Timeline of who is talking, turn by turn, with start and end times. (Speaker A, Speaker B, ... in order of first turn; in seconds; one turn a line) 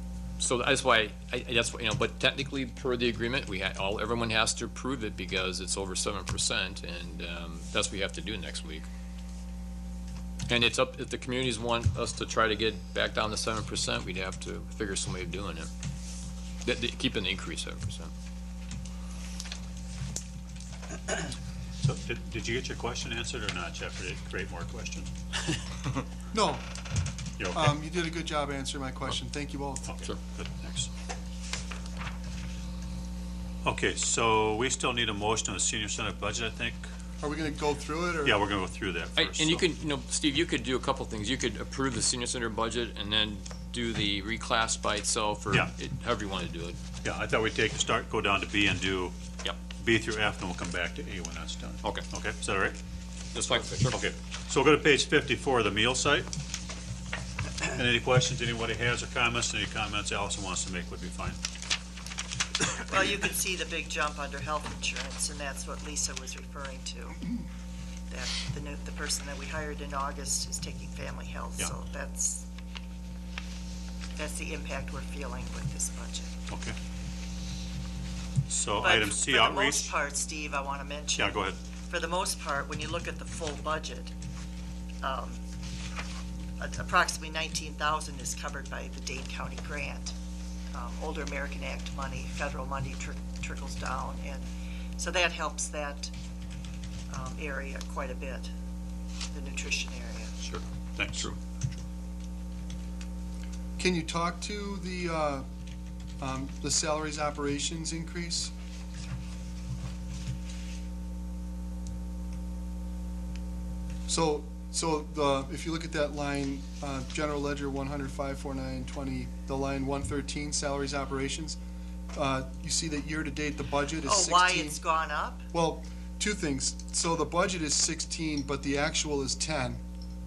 Speaker A: 0.4-8.9
Speaker A: 10.5-15.7
Speaker A: 16.6-18.1
Speaker B: 21.8-25.1
Speaker C: 26.3-26.7
Speaker B: 27.4-27.7
Speaker C: 27.5-29.9
Speaker B: 29.9-30.9
Speaker B: 33.6-36.9
Speaker C: 37.2-38.4
Speaker B: 38.2-39.6
Speaker A: 39.2-46.8
Speaker B: 47.0-49.1
Speaker B: 49.8-52.8
Speaker A: 53.3-54.0
Speaker B: 53.9-56.3
Speaker B: 57.6-61.4
Speaker D: 62.8-67.2
Speaker D: 68.1-72.5
Speaker D: 74.2-76.4
Speaker B: 76.5-76.8
Speaker B: 78.5-80.0
Speaker D: 78.8-81.3
Speaker B: 81.2-81.6
Speaker D: 81.9-84.1
Speaker D: 85.0-85.4
Speaker D: 86.6-90.1
Speaker D: 90.7-96.1
Speaker D: 97.1-98.5
Speaker D: 99.3-100.3
Speaker A: 100.4-101.8
Speaker B: 101.0-101.3
Speaker C: 103.8-105.5
Speaker C: 106.2-108.5
Speaker C: 114.1-121.6
Speaker C: 122.1-124.8
Speaker D: 124.0-125.4
Speaker C: 125.5-129.8